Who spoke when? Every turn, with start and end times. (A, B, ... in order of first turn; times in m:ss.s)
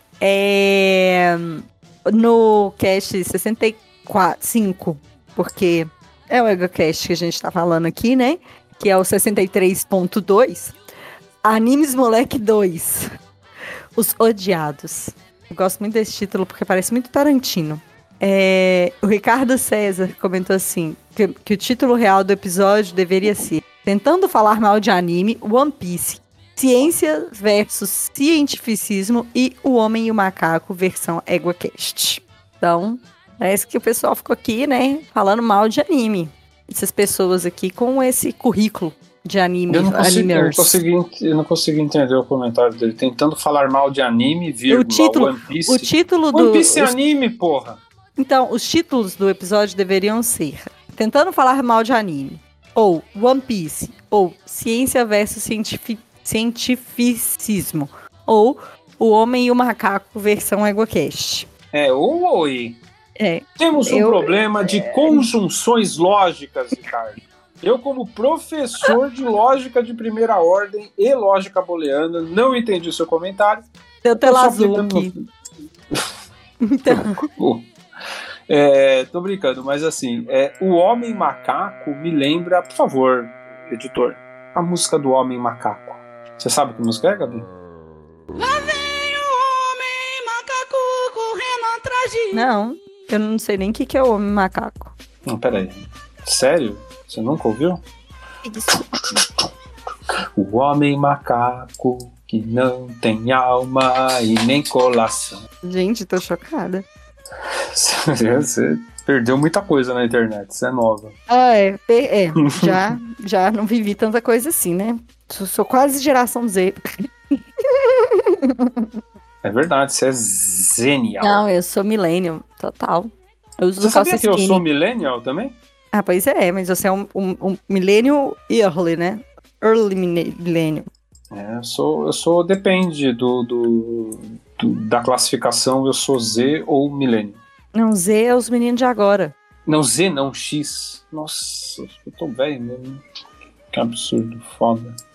0:00.2-0:10.8 A
0:11.4-0:13.1 A
0:14.0-0:40.8 A
0:39.7-0:47.8 B
0:44.7-0:46.9 A
0:48.2-1:01.5 A
1:01.7-1:02.8 B
1:03.2-1:05.3 A
1:03.6-1:13.6 B
1:14.0-1:15.1 A
1:14.2-1:15.1 B
1:16.6-1:17.2 A
1:16.9-1:17.7 B
1:18.5-1:27.5 B
1:28.4-1:32.4 C
1:32.3-1:34.9 A
1:35.3-1:37.8 B
1:38.4-1:39.2 A
1:38.7-1:39.5 B
1:40.4-1:45.4 B
1:45.6-1:46.8 A
1:47.7-1:51.2 B
1:51.3-1:58.8 A
1:52.4-1:52.9 B
1:59.4-2:01.4 B
2:01.2-2:04.6 A
2:03.8-2:05.6 B
2:05.9-2:10.9 A
2:11.3-2:17.4 B
2:17.7-2:19.4 A
2:19.7-2:23.0 B
2:23.7-2:25.0 B